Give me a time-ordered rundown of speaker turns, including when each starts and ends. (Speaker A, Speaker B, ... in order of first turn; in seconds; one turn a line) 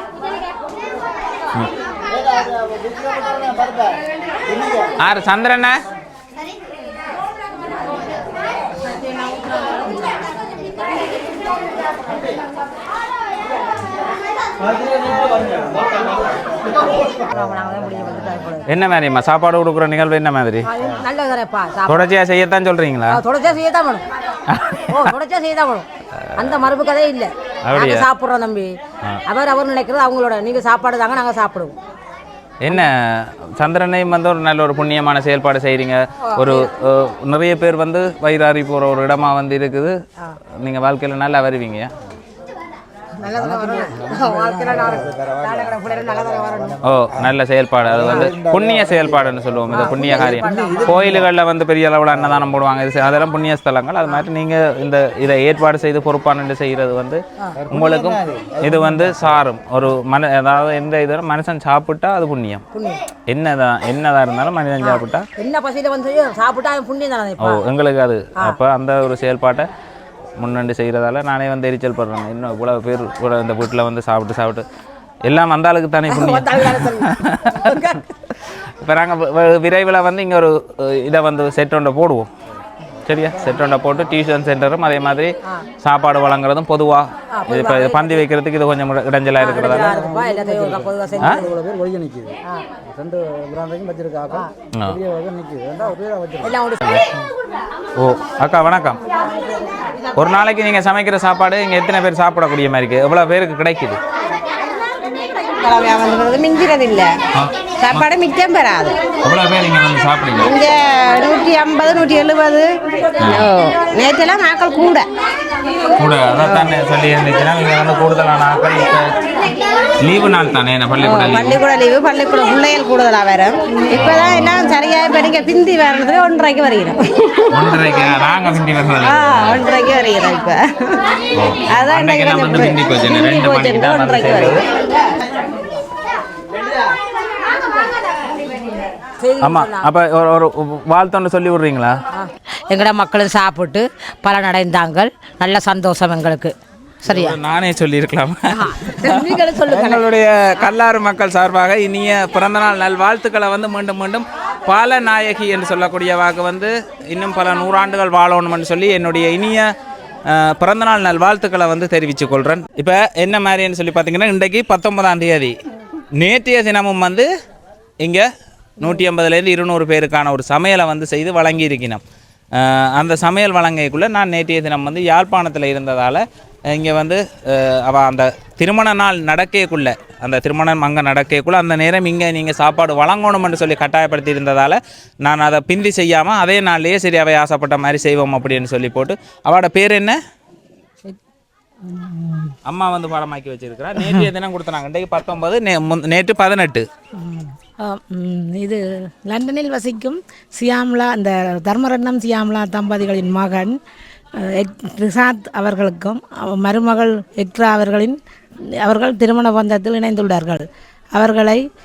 Speaker A: 5.0-5.8
Speaker B: 17.3-18.6
Speaker A: 18.7-20.7
Speaker B: 20.7-22.1
Speaker A: 21.9-23.2
Speaker B: 23.1-24.1
Speaker A: 24.5-25.1
Speaker B: 24.9-25.9
Speaker A: 26.3-26.7
Speaker B: 26.4-28.7
Speaker A: 27.7-28.1
Speaker B: 29.3-31.8
Speaker A: 32.6-39.9
Speaker A: 40.6-41.9
Speaker B: 43.2-46.8
Speaker A: 46.8-62.6
Speaker B: 48.0-48.3
Speaker B: 49.7-51.2
Speaker B: 62.7-63.0
Speaker A: 63.3-65.3
Speaker B: 64.8-67.6
Speaker A: 67.4-69.7
Speaker A: 70.4-74.7
Speaker A: 75.2-78.0
Speaker B: 76.1-77.0
Speaker B: 77.7-78.0
Speaker A: 78.8-82.3
Speaker A: 83.1-90.0
Speaker B: 87.3-88.2
Speaker B: 89.4-91.6
Speaker A: 91.2-91.5
Speaker A: 94.7-95.0
Speaker B: 95.8-97.0
Speaker A: 96.8-97.1
Speaker A: 98.0-99.0
Speaker B: 99.3-100.2
Speaker A: 100.2-104.0
Speaker C: 105.6-107.1
Speaker A: 107.4-108.1
Speaker C: 107.8-109.0
Speaker A: 109.2-110.5
Speaker C: 110.4-112.7
Speaker A: 113.2-113.5
Speaker C: 113.3-115.1
Speaker A: 116.0-119.2
Speaker C: 116.4-116.7
Speaker A: 120.0-121.6
Speaker C: 121.0-127.6
Speaker A: 123.9-124.6
Speaker A: 127.5-129.6
Speaker C: 129.0-131.1
Speaker A: 131.3-134.7
Speaker C: 131.7-134.7
Speaker B: 139.2-139.9
Speaker A: 139.4-142.0
Speaker B: 142.2-146.5
Speaker B: 147.1-147.4
Speaker A: 147.1-159.7
Speaker B: 148.6-150.0
Speaker A: 160.3-165.6
Speaker A: 166.2-167.3
Speaker A: 168.0-172.0
Speaker A: 172.5-190.2
Speaker D: 191.8-192.5
Speaker A: 192.7-196.9
Speaker D: 197.2-203.8
Speaker D: 204.4-208.2
Speaker D: 208.8-211.6